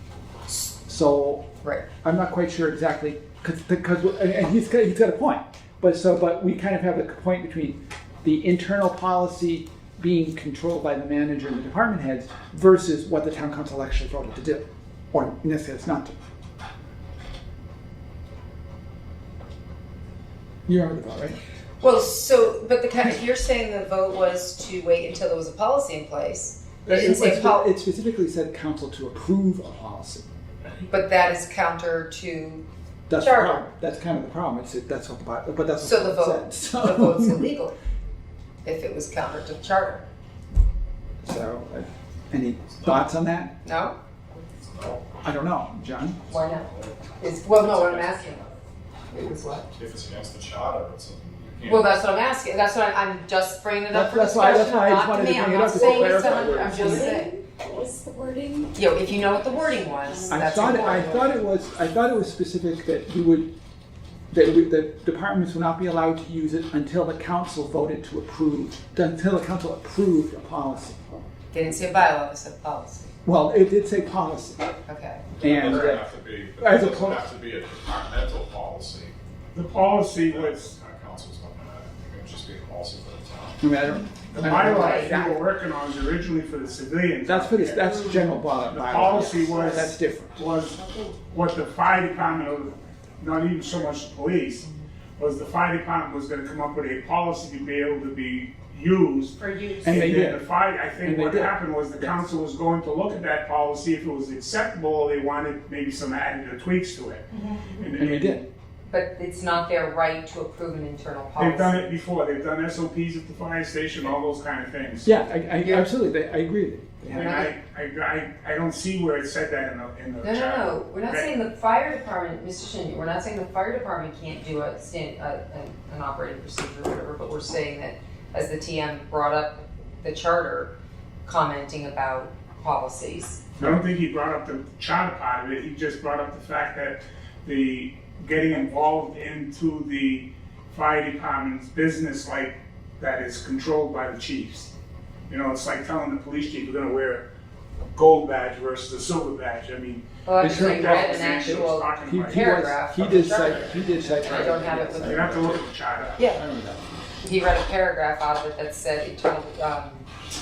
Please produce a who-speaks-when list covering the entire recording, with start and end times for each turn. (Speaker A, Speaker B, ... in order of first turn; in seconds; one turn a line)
Speaker A: 0.5-1.5
Speaker A: 2.0-16.1
Speaker A: 20.7-21.4
Speaker B: 21.8-27.7
Speaker A: 26.8-30.4
Speaker B: 30.9-32.6
Speaker A: 33.1-37.5
Speaker B: 33.2-33.7
Speaker B: 35.8-37.7
Speaker B: 38.6-40.0
Speaker A: 41.2-43.5
Speaker C: 42.8-43.1
Speaker B: 43.6-43.9
Speaker C: 44.6-45.1
Speaker A: 45.2-46.2
Speaker C: 46.3-48.4
Speaker B: 46.3-48.5
Speaker B: 49.1-49.6
Speaker C: 49.7-52.0
Speaker B: 51.6-57.3
Speaker A: 53.9-57.2
Speaker D: 55.7-61.1
Speaker B: 58.7-61.3
Speaker A: 60.3-63.5
Speaker A: 64.3-71.1
Speaker B: 71.5-73.1
Speaker A: 73.2-74.6
Speaker B: 74.8-75.9
Speaker C: 75.4-79.1
Speaker A: 75.4-76.0
Speaker A: 76.6-77.2
Speaker E: 79.5-80.8
Speaker C: 79.9-84.0
Speaker A: 83.6-85.4
Speaker E: 84.3-94.6
Speaker B: 84.4-85.3
Speaker A: 87.2-90.4
Speaker B: 89.0-89.6
Speaker D: 90.7-91.1
Speaker E: 95.2-108.4
Speaker D: 99.4-100.0
Speaker A: 99.8-100.4
Speaker A: 101.0-101.5
Speaker A: 108.0-108.4
Speaker B: 108.9-111.9
Speaker E: 111.4-115.1
Speaker A: 115.0-117.3
Speaker B: 115.6-115.9
Speaker B: 117.1-117.5
Speaker E: 117.1-121.3
Speaker B: 120.2-130.7
Speaker B: 131.2-133.5
Speaker E: 133.6-144.7
Speaker E: 145.3-147.3
Speaker E: 147.9-156.2
Speaker B: 150.2-155.4
Speaker A: 150.4-156.8
Speaker B: 156.2-156.4
Speaker B: 157.2-160.1